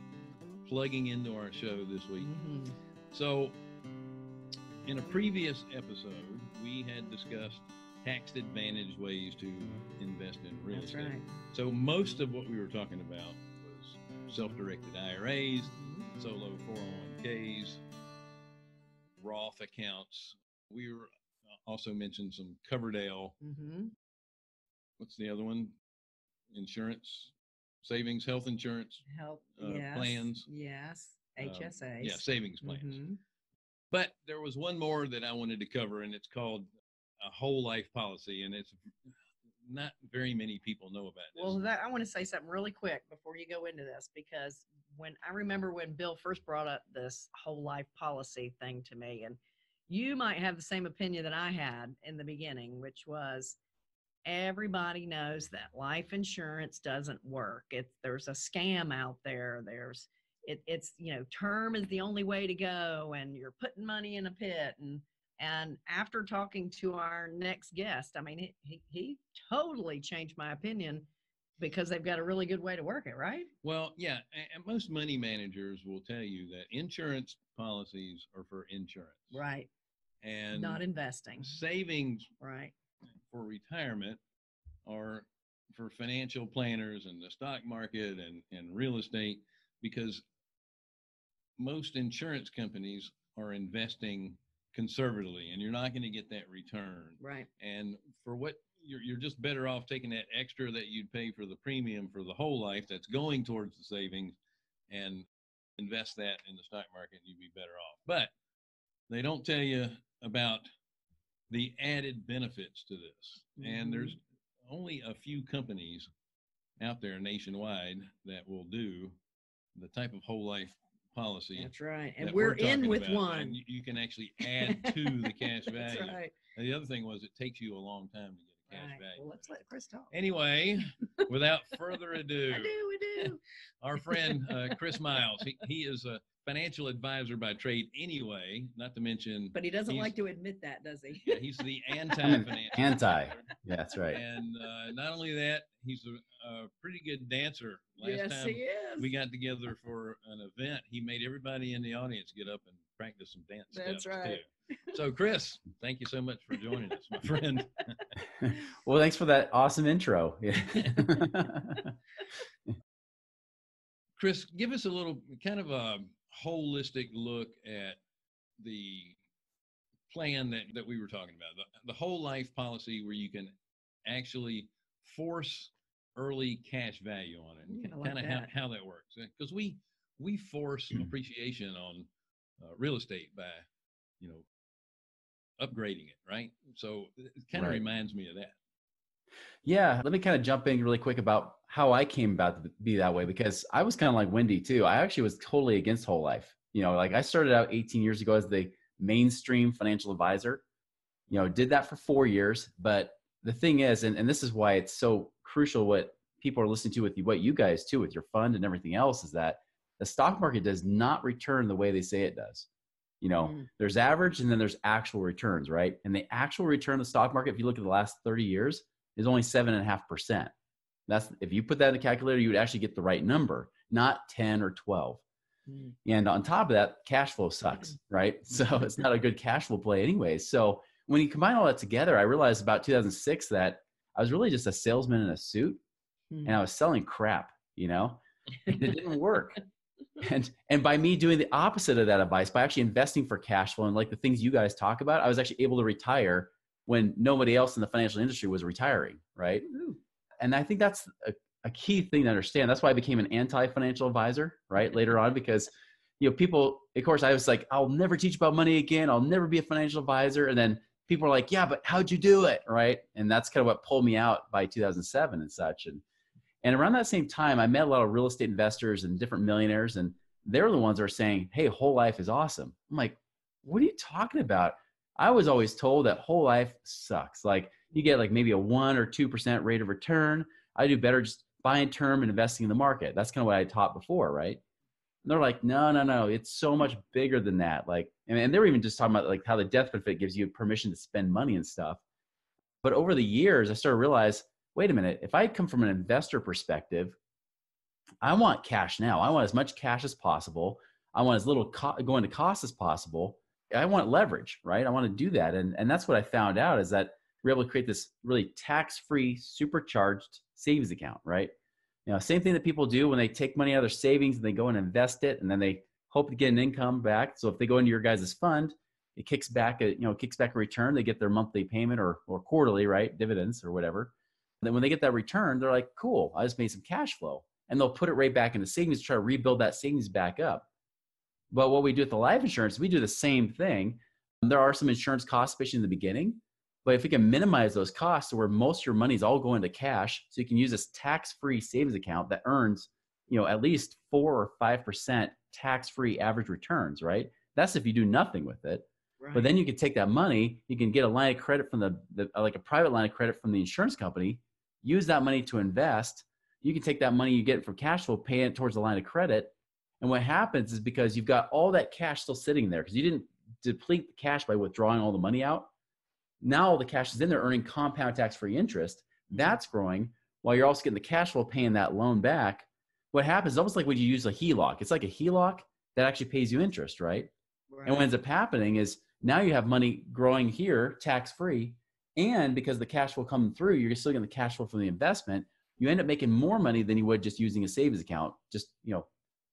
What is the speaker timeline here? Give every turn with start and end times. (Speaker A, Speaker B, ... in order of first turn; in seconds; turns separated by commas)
Speaker A: 0.6-2.3, Speaker B: 2.2-2.8, Speaker A: 3.1-3.6, Speaker A: 4.8-17.8, Speaker B: 10.7-11.3, Speaker B: 15.7-16.1, Speaker A: 19.2-21.1, Speaker A: 21.6-23.4, Speaker B: 23.4-23.9, Speaker A: 25.0-25.8, Speaker A: 26.5-29.1, Speaker B: 29.1-33.2, Speaker A: 29.6-30.5, Speaker A: 31.4-33.0, Speaker A: 33.9-36.7, Speaker A: 37.2-38.8, Speaker A: 39.6-41.6, Speaker B: 41.4-49.4, Speaker B: 49.9-53.6, Speaker B: 54.2-71.1, Speaker B: 71.6-73.5, Speaker A: 73.6-79.4, Speaker B: 79.3-79.7, Speaker A: 80.2-80.8, Speaker B: 80.5-81.6, Speaker A: 81.4-82.3, Speaker B: 82.4-82.7, Speaker A: 83.3-84.2, Speaker A: 84.9-90.2, Speaker A: 91.6-104.4, Speaker B: 97.2-97.5, Speaker A: 104.9-108.3, Speaker A: 109.1-110.7, Speaker A: 111.5-116.1, Speaker B: 113.6-114.2, Speaker A: 116.8-119.2, Speaker A: 119.8-129.3, Speaker B: 121.6-123.6, Speaker B: 124.5-126.3, Speaker B: 128.7-130.1, Speaker A: 130.1-140.1, Speaker B: 132.5-133.4, Speaker B: 134.1-134.7, Speaker B: 139.5-143.0, Speaker A: 141.3-143.5, Speaker C: 142.2-144.2, Speaker A: 144.1-158.2, Speaker B: 148.0-149.1, Speaker B: 153.7-154.4, Speaker C: 158.4-161.9, Speaker A: 164.2-168.0, Speaker A: 168.6-169.2, Speaker A: 170.1-173.5, Speaker A: 174.1-182.1, Speaker B: 177.7-178.5, Speaker A: 182.6-183.7, Speaker A: 184.2-184.5, Speaker A: 185.6-188.6, Speaker C: 187.5-187.8, Speaker C: 189.6-200.6, Speaker C: 201.3-212.7, Speaker C: 213.2-220.5, Speaker C: 221.1-225.2, Speaker B: 225.7-225.9, Speaker C: 226.1-235.8, Speaker B: 236.3-236.6, Speaker C: 236.4-239.6, Speaker C: 240.2-249.7, Speaker B: 249.7-250.0, Speaker C: 250.4-266.0, Speaker C: 266.6-284.6, Speaker C: 285.2-292.0, Speaker C: 292.8-297.2, Speaker C: 298.2-311.5, Speaker C: 312.1-330.7, Speaker C: 331.5-365.7, Speaker B: 349.2-349.5, Speaker C: 366.4-377.3, Speaker B: 377.7-378.1, Speaker C: 377.9-389.1